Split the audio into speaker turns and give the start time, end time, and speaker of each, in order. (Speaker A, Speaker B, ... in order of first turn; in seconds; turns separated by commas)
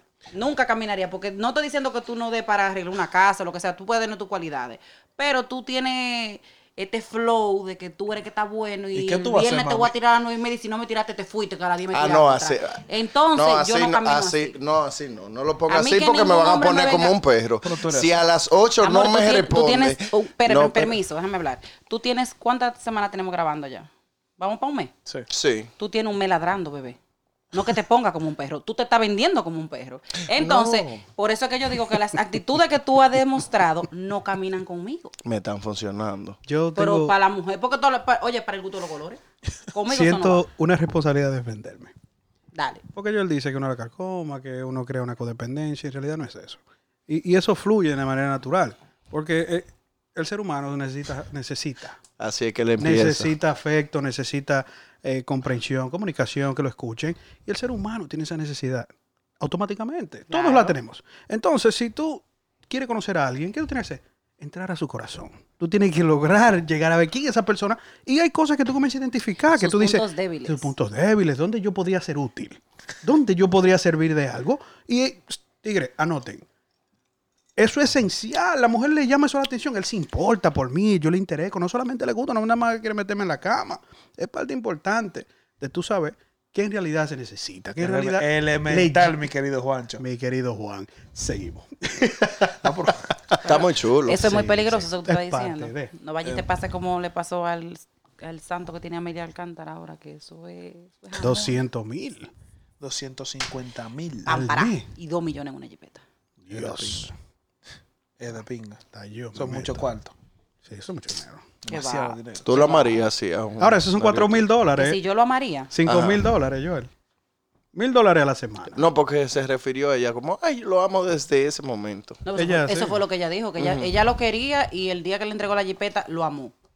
Speaker A: 0.3-14.6, Speaker B: 8.9-9.9, Speaker C: 11.9-20.9, Speaker A: 15.7-17.1, Speaker B: 17.6-18.2, Speaker A: 18.8-24.9, Speaker C: 25.3-25.7, Speaker A: 25.8-27.0, Speaker A: 27.5-35.1, Speaker C: 30.3-31.0, Speaker C: 35.2-36.4, Speaker D: 36.5-37.1, Speaker A: 36.8-39.2, Speaker A: 39.7-40.4, Speaker D: 39.9-41.9, Speaker A: 42.5-42.8, Speaker D: 42.9-52.0, Speaker C: 52.2-53.3, Speaker D: 52.8-58.9, Speaker D: 59.4-76.4, Speaker A: 60.3-60.8, Speaker A: 69.5-70.7, Speaker D: 77.6-89.2, Speaker B: 87.8-90.0, Speaker D: 90.0-92.5, Speaker B: 92.6-93.1, Speaker C: 93.4-94.5, Speaker A: 93.4-101.6, Speaker D: 94.2-95.9, Speaker D: 101.2-102.3, Speaker B: 102.8-104.3, Speaker A: 104.2-106.0, Speaker D: 104.3-104.8, Speaker D: 106.4-107.1, Speaker B: 106.5-107.1, Speaker B: 108.2-108.8, Speaker D: 108.9-109.9, Speaker B: 109.3-110.1, Speaker D: 110.6-111.4, Speaker B: 111.6-112.6, Speaker A: 111.7-113.0, Speaker C: 112.4-114.4, Speaker D: 113.6-115.0, Speaker A: 114.8-115.7, Speaker D: 115.7-116.9, Speaker C: 115.8-116.3, Speaker D: 117.7-118.8, Speaker C: 118.7-122.2, Speaker A: 122.2-126.5, Speaker D: 122.3-123.0, Speaker C: 123.6-123.9